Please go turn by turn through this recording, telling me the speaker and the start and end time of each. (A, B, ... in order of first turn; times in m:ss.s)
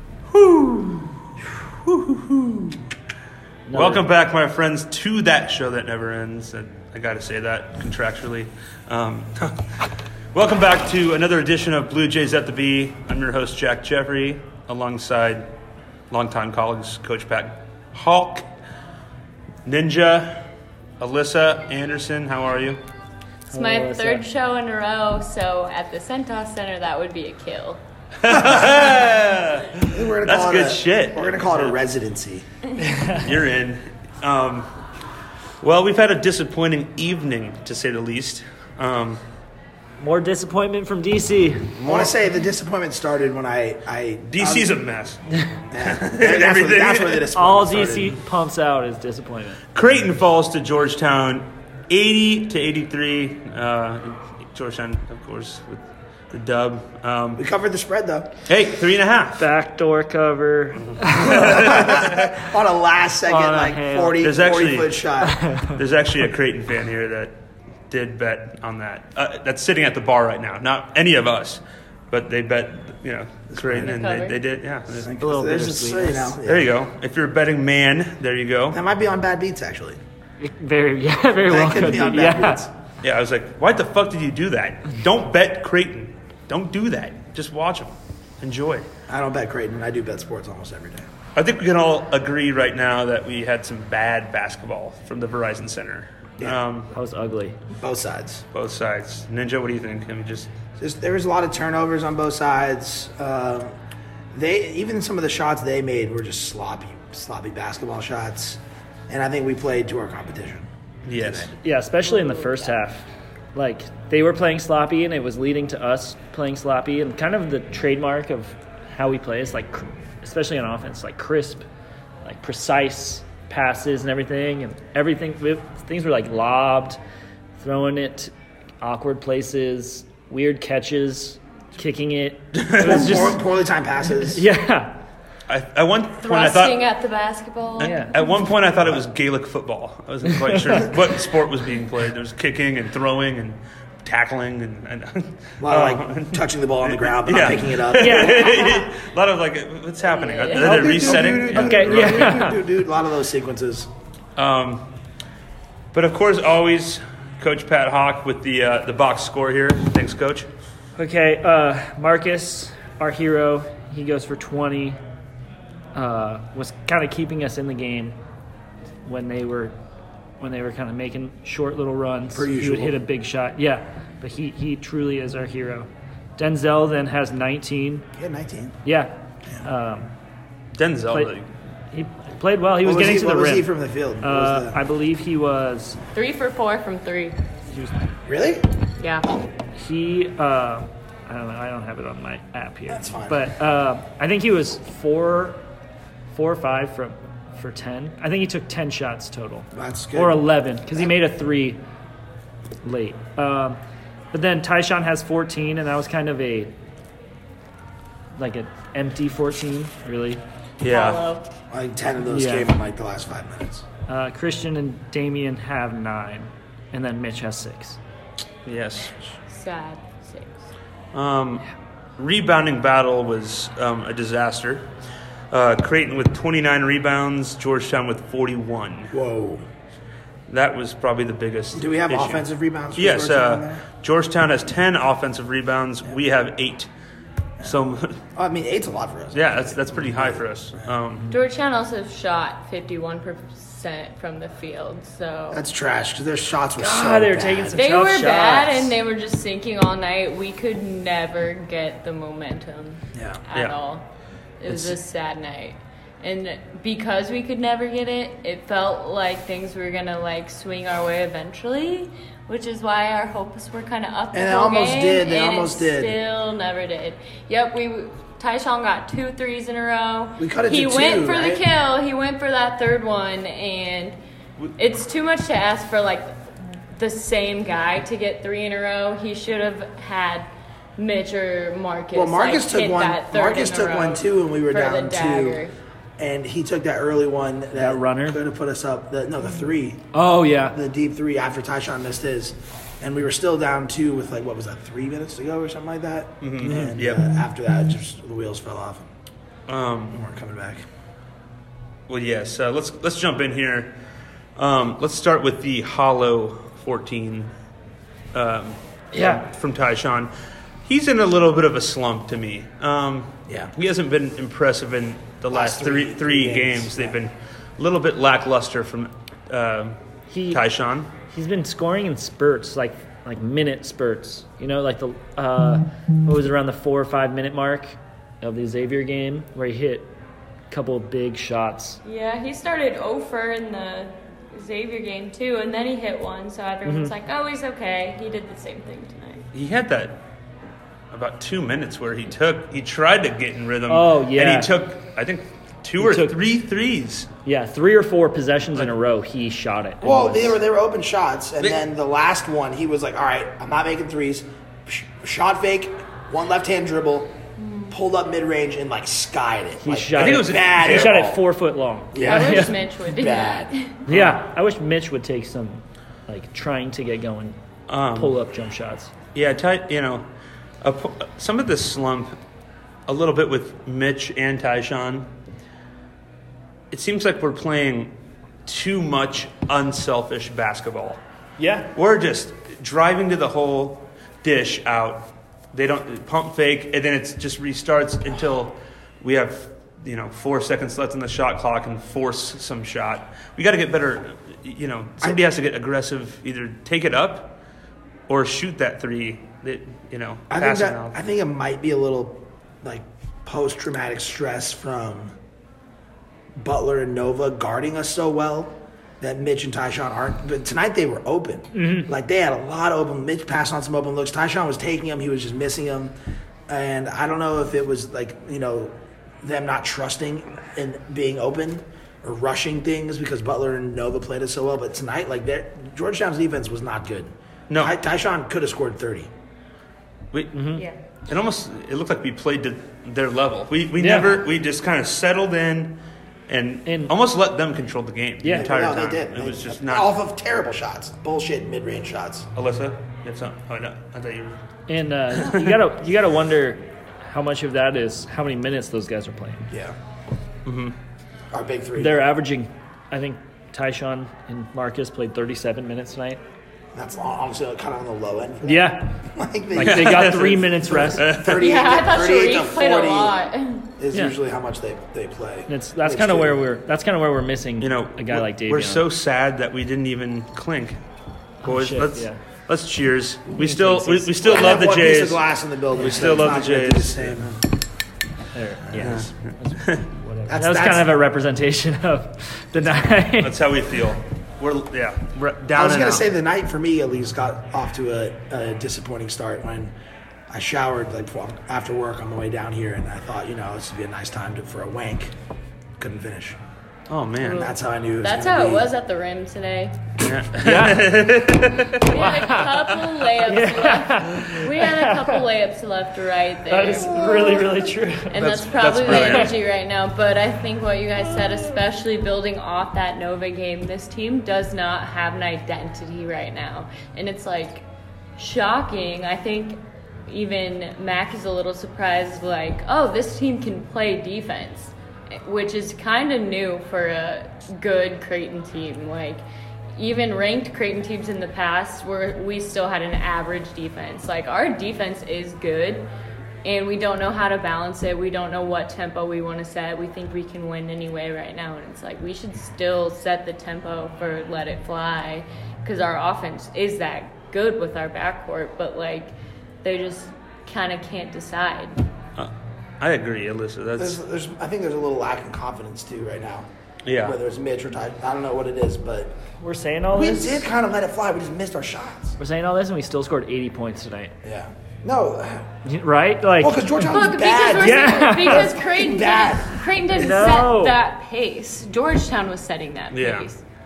0:00.3-0:01.1 A
0:01.7-0:02.8 A
0:03.7-0:04.1 B
0:03.7-0:09.7 A
0:10.3-0:15.5 A
0:16.1-0:18.5 A
0:19.6-0:20.4 A
0:21.0-0:22.8 A
0:23.5-0:24.2 B
0:23.5-0:27.8 C
0:28.2-0:31.7 A
0:29.9-0:32.4 D
0:32.8-0:33.2 B
0:33.1-0:34.7 A
0:35.6-0:39.2 A
0:40.0-0:41.8 B
0:41.8-0:42.1 A
0:41.8-0:44.8 D
0:44.3-0:47.2 A
0:45.7-0:48.2 D
0:47.3-0:49.6 B
0:49.7-0:57.4 A
0:57.4-0:58.3 D
0:58.5-0:59.5 A
0:59.4-1:01.9 B
1:00.8-1:02.3 A
1:01.2-1:05.4 D
1:03.2-1:04.3 B
1:04.2-1:04.9 A
1:05.2-1:05.7 B
1:05.7-1:07.4 A
1:07.9-1:15.1 A
1:13.5-1:13.9 D
1:13.8-1:14.4 C
1:14.9-1:16.7 D
1:15.0-1:16.4 B
1:16.4-1:18.8 A
1:18.7-1:20.0 D
1:20.4-1:22.6 B
1:21.5-1:22.7 D
1:23.0-1:28.9 A
1:29.1-1:31.1 D
1:31.3-1:36.9 A
1:36.9-1:37.6 B
1:37.8-1:38.4 D
1:38.5-1:40.5 A
1:40.8-1:43.7 D
1:44.3-1:50.7 D
1:51.0-1:51.5 A
1:51.2-1:51.5 D
1:51.5-2:01.6 B
1:52.0-1:52.7 C
2:02.2-2:07.0 B
2:07.6-2:13.4 B
2:12.6-2:12.9 A
2:12.7-2:14.4 D
2:14.1-2:15.0 B
2:15.5-2:16.8 A
2:16.2-2:18.3 C
2:17.8-2:32.4 A
2:17.8-2:18.2 B
2:20.2-2:20.9 B
2:25.6-2:28.7 D
2:27.9-2:28.5 B
2:28.3-2:28.8 C
2:30.1-2:30.7 C
2:30.5-2:33.9 D
2:30.6-2:32.6 B
2:34.4-2:34.9 A
2:35.9-2:40.5 A
2:41.0-2:45.0 B
2:45.9-2:48.2 B
2:49.0-2:49.8 B
2:50.4-2:58.0 B
2:52.3-2:53.0 D
2:58.1-2:58.8 D
2:58.8-3:00.1 B
3:00.8-3:01.5 A
3:01.9-3:06.0 B
3:02.8-3:04.8 D
3:06.1-3:07.4 C
3:08.2-3:08.6 D
3:09.0-3:09.3 C
3:09.8-3:15.6 B
3:12.9-3:13.4 D
3:16.3-3:21.8 B
3:19.7-3:20.4 D
3:22.8-3:23.8 B
3:24.3-3:26.7 B
3:28.4-3:30.4 B
3:30.8-3:31.2 A
3:30.8-3:31.5 C
3:31.7-3:33.8 D
3:32.3-3:32.7 B
3:34.1-3:38.0 B
3:38.6-3:39.1 A
3:39.5-3:40.6 C
3:41.1-3:44.9 A
3:45.5-3:49.2 A
3:49.1-3:49.6 D
3:50.5-3:52.4 A
3:51.7-3:53.8 D
3:53.0-3:56.9 A
3:57.6-3:58.2 A
3:58.4-4:00.9 D
3:59.3-4:01.3 A
4:01.3-4:05.6 C
4:05.5-4:07.8 D
4:06.8-4:08.9 B
4:07.8-4:14.0 C
4:13.1-4:13.4 D
4:14.6-4:34.2 C
4:24.3-4:26.2 D
4:30.4-4:31.6 D
4:34.8-4:45.7 C
4:42.1-4:45.6 D
4:46.2-4:50.1 D
4:47.8-4:48.4 B
4:50.1-4:50.8 B
4:50.7-4:59.1 D
4:56.4-4:57.2 A
4:56.6-4:56.9 B
4:59.7-5:00.2 A
5:00.1-5:00.8 D
5:02.1-5:04.0 A
5:04.6-5:07.5 A
5:08.3-5:10.3 A
5:09.1-5:09.4 B
5:10.8-5:20.0 A
5:15.5-5:17.2 D
5:20.3-5:20.6 B
5:20.5-5:21.1 A
5:21.3-5:30.1 B
5:30.7-5:32.0 B
5:32.0-5:39.5 C
5:36.8-5:37.1 B
5:39.5-5:40.2 A
5:41.1-5:47.3 A
5:43.9-5:44.7 B
5:46.0-5:46.4 B
5:47.4-5:50.6 B
5:50.0-5:57.3 D
5:57.6-5:57.9 C
5:57.9-6:01.4 D
5:59.8-6:02.7 B
6:00.1-6:01.2 A
6:02.1-6:03.7 D
6:02.2-6:03.9 C
6:04.1-6:04.4 A
6:04.1-6:07.6 B
6:07.9-6:08.4 A
6:08.1-6:09.1 B
6:09.3-6:10.3 A
6:10.8-6:12.4 A
6:13.1-6:15.3 A
6:16.9-6:18.1 A
6:18.6-6:21.2 A
6:21.6-6:21.9 B
6:21.9-6:37.6 A
6:38.3-6:41.1 A
6:40.5-6:45.3 D
6:46.6-6:56.1 D
6:51.7-6:52.1 B
6:56.7-7:09.3 D
7:10.3-7:10.7 A
7:10.5-7:10.8 B
7:11.2-7:16.0 A
7:14.0-7:14.4 B
7:16.5-7:20.1 A
7:16.8-7:17.1 B
7:18.4-7:18.7 B
7:18.5-7:22.5 D
7:22.5-7:24.6 A
7:24.9-7:29.7 B
7:25.4-7:25.7 A
7:29.7-7:30.0 D
7:30.6-7:31.0 A
7:31.5-7:32.2 D
7:31.9-7:36.4 B
7:36.9-7:43.4 D
7:38.6-7:39.2 B
7:39.7-7:41.2 B
7:39.8-7:41.6 A
7:41.5-7:43.9 C
7:44.0-7:46.6 D
7:45.7-7:49.0 B
7:47.8-7:51.0 A
7:51.6-7:52.4 B
7:51.6-7:57.6 A
7:53.6-7:54.5 B
7:54.4-7:57.6 D
7:56.0-7:56.3 B
7:58.5-8:03.6 B
7:59.0-8:00.1 A
8:00.5-8:01.2 D
8:03.4-8:06.2 A
8:05.7-8:09.9 D
8:10.5-8:15.3 D
8:16.0-8:16.6 D
8:17.1-8:17.7 A
8:17.4-8:18.8 D
8:18.2-8:20.0 C
8:20.2-8:22.2 A
8:20.6-8:21.2 B
8:21.8-8:27.7 C
8:22.1-8:22.7 B
8:23.4-8:25.4 B
8:26.7-8:29.5 B
8:27.0-8:27.6 D
8:28.3-8:37.8 C
8:28.4-8:29.5 A
8:31.4-8:31.7 B
8:38.4-8:49.4 C
8:50.0-8:56.1 C
8:56.6-9:12.0 C
9:12.4-9:14.2 A
9:14.0-9:16.7 D
9:17.0-9:17.3 A
9:17.2-9:19.4 D
9:19.6-9:20.7 B
9:20.1-9:22.4 D
9:22.4-9:24.3 B
9:24.4-9:25.7 D
9:25.8-9:27.1 B
9:26.6-9:30.5 D
9:27.0-9:33.6 C
9:27.8-9:28.7 B
9:30.1-9:31.0 B
9:33.1-9:33.5 A